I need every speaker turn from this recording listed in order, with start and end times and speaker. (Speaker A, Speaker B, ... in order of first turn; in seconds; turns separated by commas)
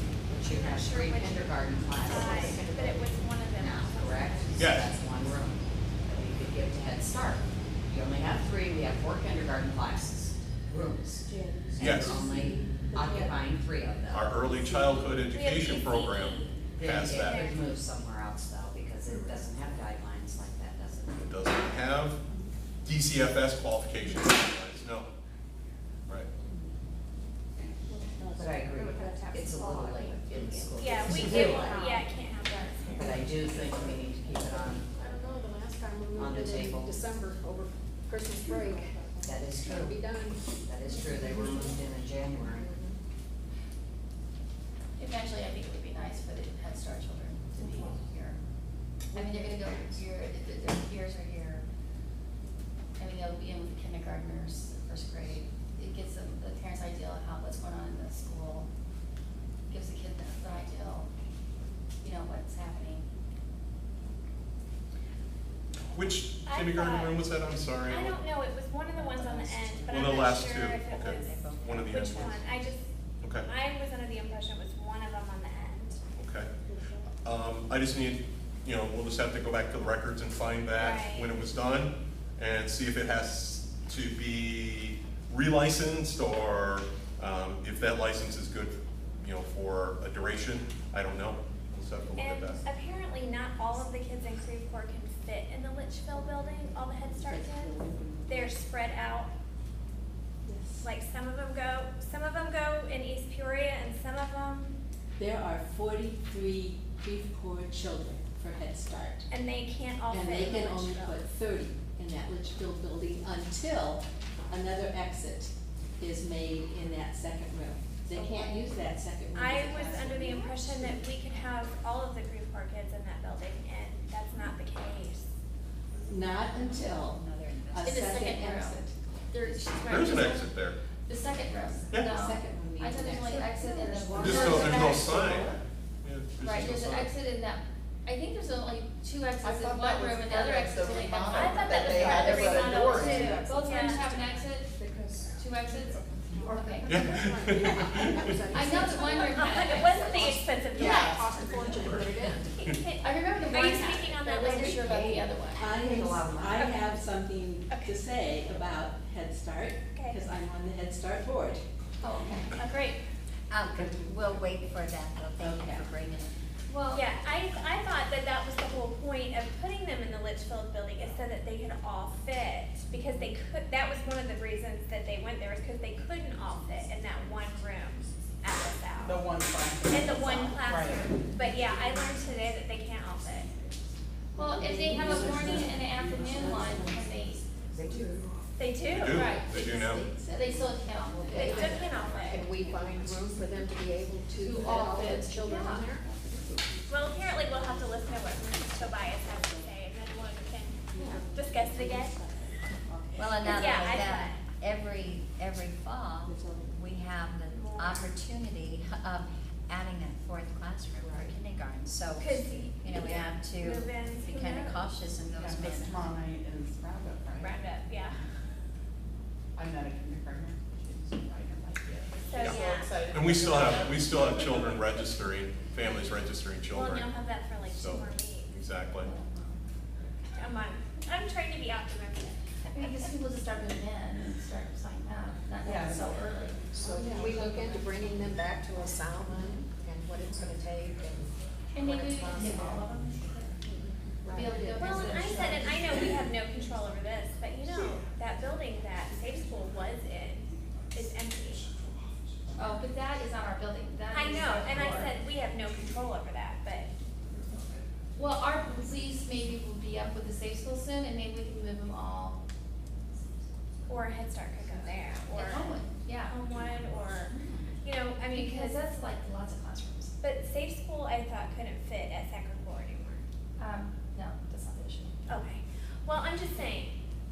Speaker A: 0.2-14.3, Speaker B: 0.5-4.5, Speaker C: 4.5-5.0, Speaker D: 11.3-12.6, Speaker C: 11.8-12.2, Speaker E: 11.9-13.3, Speaker C: 14.1-17.5, Speaker B: 15.3-17.6, Speaker A: 16.8-21.3, Speaker C: 21.2-22.2, Speaker C: 22.8-25.1, Speaker D: 27.9-30.7, Speaker A: 28.3-32.0, Speaker B: 30.8-33.0, Speaker A: 33.0-34.9, Speaker D: 34.9-43.0, Speaker A: 36.1-37.1, Speaker A: 39.2-40.1, Speaker A: 40.6-42.7, Speaker F: 45.0-48.4, Speaker F: 49.1-51.6, Speaker D: 49.3-49.7, Speaker F: 53.0-58.7, Speaker F: 59.7-61.1, Speaker F: 62.0-63.0, Speaker C: 65.9-68.2, Speaker B: 66.4-67.2, Speaker B: 67.8-72.9, Speaker G: 68.9-70.1, Speaker C: 69.9-72.4, Speaker G: 70.8-72.5, Speaker C: 73.2-73.5, Speaker B: 73.5-76.0, Speaker C: 76.2-76.5, Speaker C: 77.2-92.6, Speaker B: 80.7-81.4, Speaker B: 92.2-97.7, Speaker E: 97.1-98.5, Speaker B: 98.2-99.3, Speaker E: 100.4-100.9, Speaker B: 100.8-104.7, Speaker E: 105.2-109.2, Speaker B: 109.3-111.2, Speaker E: 110.1-121.0, Speaker F: 118.1-118.7, Speaker B: 119.3-125.3, Speaker E: 126.1-130.2, Speaker G: 126.7-128.0, Speaker F: 127.8-130.5, Speaker C: 129.8-130.8, Speaker F: 131.0-135.6, Speaker E: 131.9-135.5, Speaker D: 133.4-135.1, Speaker C: 134.2-137.2, Speaker F: 136.4-144.8, Speaker H: 139.4-143.5, Speaker B: 141.3-144.1, Speaker D: 142.1-152.6, Speaker F: 145.3-147.1, Speaker C: 146.8-148.4, Speaker F: 148.5-151.1, Speaker B: 149.3-151.3, Speaker H: 150.8-151.6, Speaker C: 151.7-152.1, Speaker B: 152.6-155.0, Speaker F: 153.0-155.7, Speaker D: 153.5-155.2, Speaker E: 154.8-161.6, Speaker A: 155.6-156.6, Speaker B: 159.9-160.2, Speaker F: 162.0-162.5, Speaker B: 162.5-163.0, Speaker G: 163.5-166.3, Speaker E: 165.4-165.9, Speaker F: 166.7-167.1, Speaker B: 166.9-179.2, Speaker H: 179.0-181.2, Speaker B: 179.9-183.5, Speaker E: 184.3-187.2, Speaker F: 184.3-187.5, Speaker D: 185.1-185.6, Speaker D: 186.7-187.2, Speaker B: 188.6-189.2, Speaker C: 188.8-190.1, Speaker F: 189.0-192.2, Speaker E: 189.2-192.9, Speaker D: 191.2-199.7, Speaker B: 191.4-192.5, Speaker F: 194.3-195.9, Speaker B: 196.9-202.2, Speaker D: 200.9-203.8, Speaker G: 203.1-216.2, Speaker B: 203.5-204.4, Speaker D: 206.3-206.7, Speaker B: 207.5-208.1, Speaker D: 211.1-211.3, Speaker B: 212.1-214.9, Speaker H: 215.4-217.6, Speaker B: 217.4-218.1, Speaker H: 219.6-225.1, Speaker B: 222.3-223.0, Speaker C: 222.3-229.1, Speaker B: 226.7-228.5, Speaker F: 228.8-229.6, Speaker B: 230.3-232.4, Speaker F: 232.7-239.5, Speaker D: 235.6-236.0, Speaker D: 236.7-242.8, Speaker F: 241.7-243.6, Speaker D: 244.2-245.2, Speaker F: 244.3-245.8, Speaker E: 244.5-246.1, Speaker B: 244.8-251.7, Speaker F: 252.6-255.1, Speaker B: 254.1-256.9, Speaker F: 258.1-262.4, Speaker B: 263.9-265.7, Speaker F: 265.3-266.4, Speaker B: 266.2-268.8, Speaker F: 268.3-270.1, Speaker B: 270.2-273.2, Speaker F: 273.6-275.1, Speaker B: 275.3-276.9